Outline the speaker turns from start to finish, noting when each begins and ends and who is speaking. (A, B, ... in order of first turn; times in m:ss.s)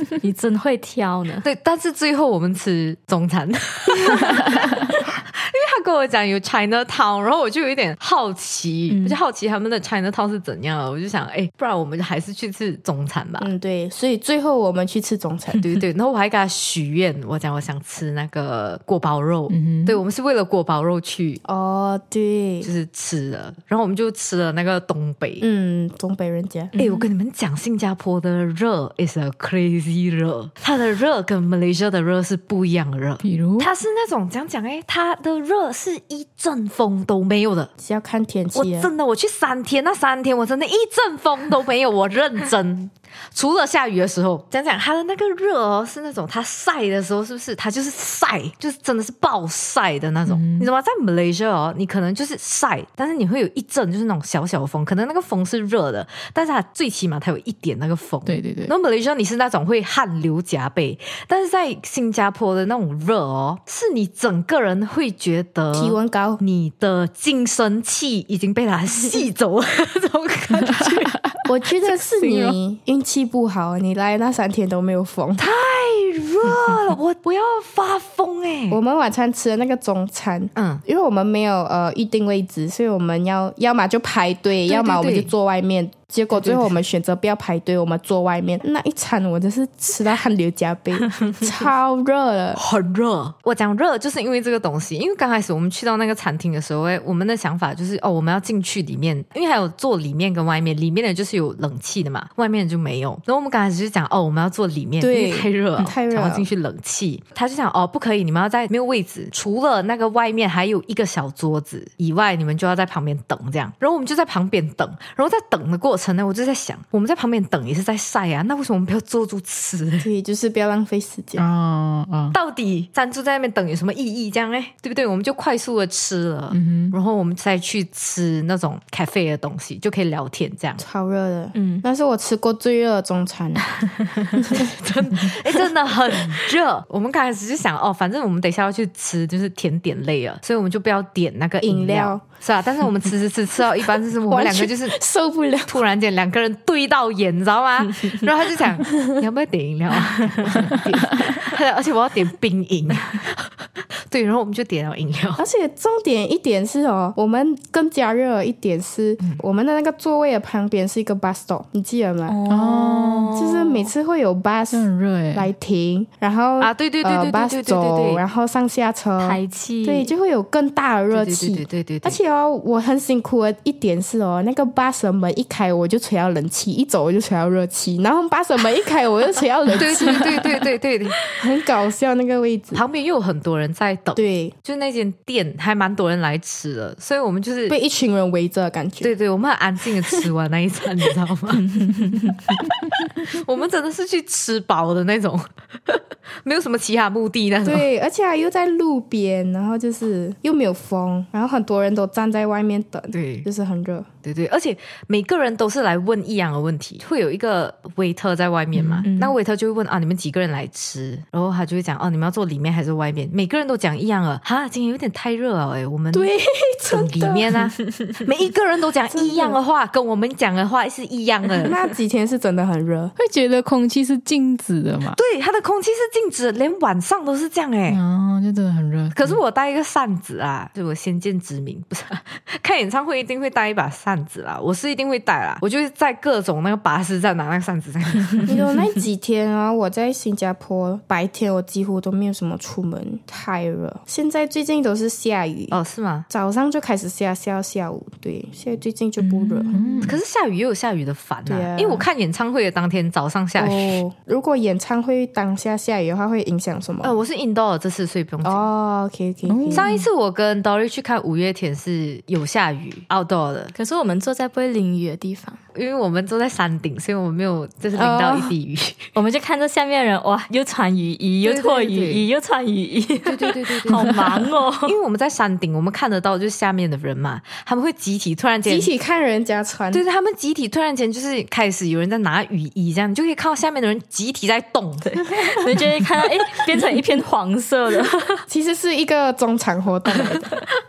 0:00.2-0:01.4 A
0:01.4-0:13.5 B
0:08.9-0:09.2 A
0:13.4-0:15.8 C
0:15.6-0:21.4 B
0:19.5-0:20.0 D
0:21.4-0:22.7 C
0:22.6-0:25.4 B
0:25.4-0:26.7 C
0:26.8-0:27.1 A
0:26.8-0:37.7 B
0:33.2-0:33.7 D
0:37.8-0:38.9 C
0:38.5-1:11.2 B
0:50.3-0:50.7 D
0:58.3-0:58.7 D
1:05.7-1:06.4 C
1:10.6-1:12.6 D
1:11.5-1:15.4 C
1:15.4-1:18.8 B
1:18.7-1:32.6 C
1:20.6-1:20.8 B
1:24.6-1:25.3 B
1:26.3-1:26.8 B
1:32.6-2:00.1 B
1:45.0-1:46.5 C
2:00.0-2:01.4 C
2:01.4-2:02.4 D
2:02.3-2:10.8 B
2:06.5-2:07.0 D
2:10.8-2:15.3 C
2:11.6-2:11.8 A
2:14.5-2:25.0 B
2:21.6-2:22.2 C
2:24.3-2:25.8 C
2:25.7-2:33.5 B
2:30.6-2:31.2 D
2:34.1-2:35.4 B
2:35.4-2:42.4 C
2:42.3-2:42.8 A
2:42.5-2:43.4 D
2:42.5-2:43.9 B
2:43.3-3:00.6 C
2:44.7-2:45.5 D
2:46.6-2:48.2 B
2:49.2-2:50.1 A
2:51.1-2:52.2 B
2:59.8-3:01.2 B
3:01.2-3:02.8 C
3:02.7-3:07.8 B
3:04.2-3:04.5 C
3:07.7-3:09.1 C
3:09.0-3:17.9 B
3:11.8-3:12.2 A
3:17.6-3:24.1 C
3:23.1-3:23.5 B
3:24.2-3:36.3 B
3:28.7-3:29.1 D
3:29.0-3:29.4 A
3:36.1-3:37.7 C
3:36.9-3:41.8 B
3:39.1-3:39.6 C
3:41.6-3:43.2 C
3:43.2-3:45.2 D
3:45.1-3:48.0 B
3:47.9-3:49.4 D
3:49.1-3:58.6 B
3:58.5-4:05.8 C
4:05.7-4:06.3 B
4:06.3-4:09.7 C
4:09.2-4:10.2 D
4:09.7-4:10.0 A
4:10.0-4:14.0 B
4:11.5-4:12.1 C
4:13.6-4:17.1 C
4:17.0-4:18.7 B
4:18.4-4:19.9 C
4:19.5-4:20.1 D
4:19.7-4:23.7 B
4:23.8-4:25.6 A
4:25.8-4:29.1 B
4:28.0-4:28.5 C
4:29.2-4:35.0 A
4:31.4-4:32.3 B
4:33.2-4:38.9 B
4:38.7-4:40.0 C
4:39.9-4:45.4 B
4:45.0-4:48.4 A
4:48.5-4:50.6 C